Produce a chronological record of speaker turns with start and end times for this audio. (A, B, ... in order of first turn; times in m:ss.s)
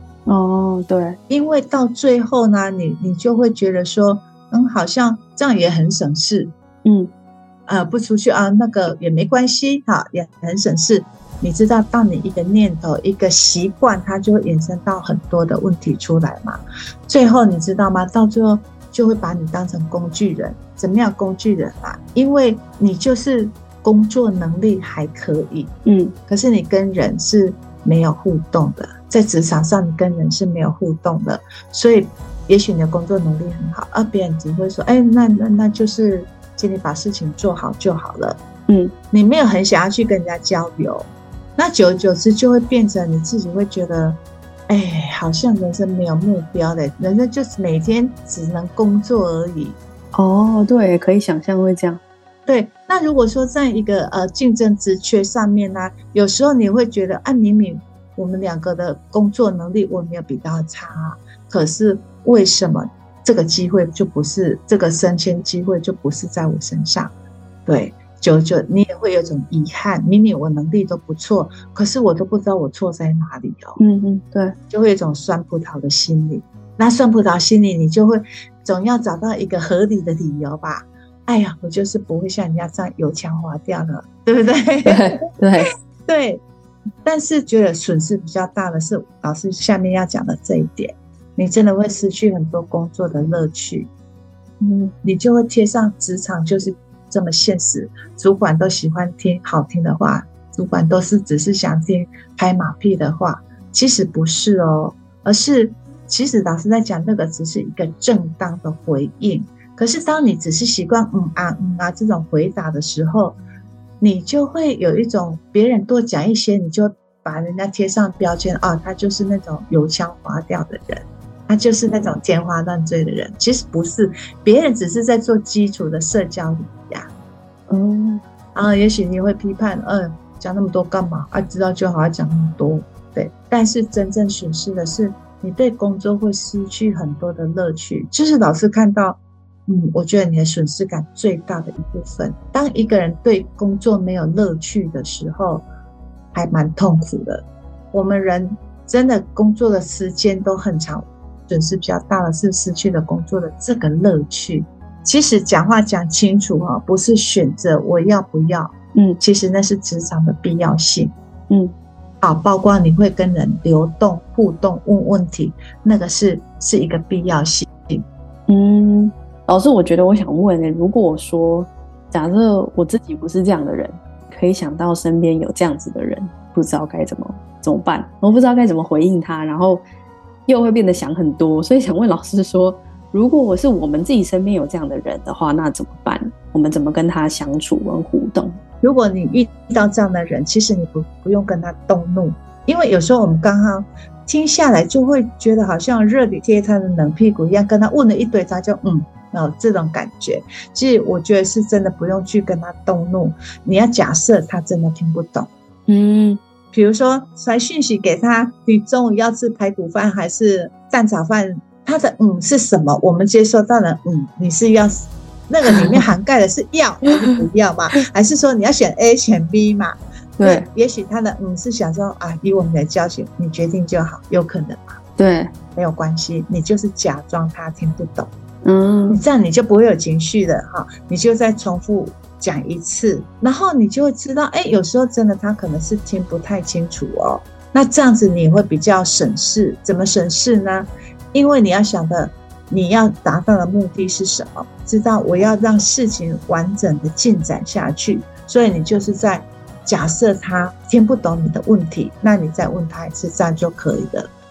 0:00.3-0:01.2 A
0:01.3-0:06.5 B
0:06.8-0:07.1 A
0:07.7-0:25.7 B
0:25.9-0:26.2 A
0:26.3-0:38.4 B
0:38.7-0:38.9 A
0:39.1-0:49.8 B
0:50.1-0:52.0 A
0:52.5-1:07.1 B
1:07.7-1:13.8 B
1:13.8-1:14.6 A
1:14.7-1:26.4 B
1:24.8-1:25.7 A
1:27.0-1:33.9 B
1:34.6-1:34.9 A
1:35.0-1:53.4 B
1:54.0-2:07.1 B
2:07.7-2:08.2 A
2:08.6-2:25.7 B
2:26.3-2:41.1 B
2:42.2-2:48.0 B
2:48.5-2:59.8 A
3:00.5-3:08.6 A
3:08.8-3:25.5 B
3:25.9-3:26.4 A
3:26.7-3:45.0 B
3:40.4-3:40.7 A
3:45.2-3:45.5 A
3:45.8-3:48.3 B
3:48.6-3:49.2 A
3:49.1-4:14.3 B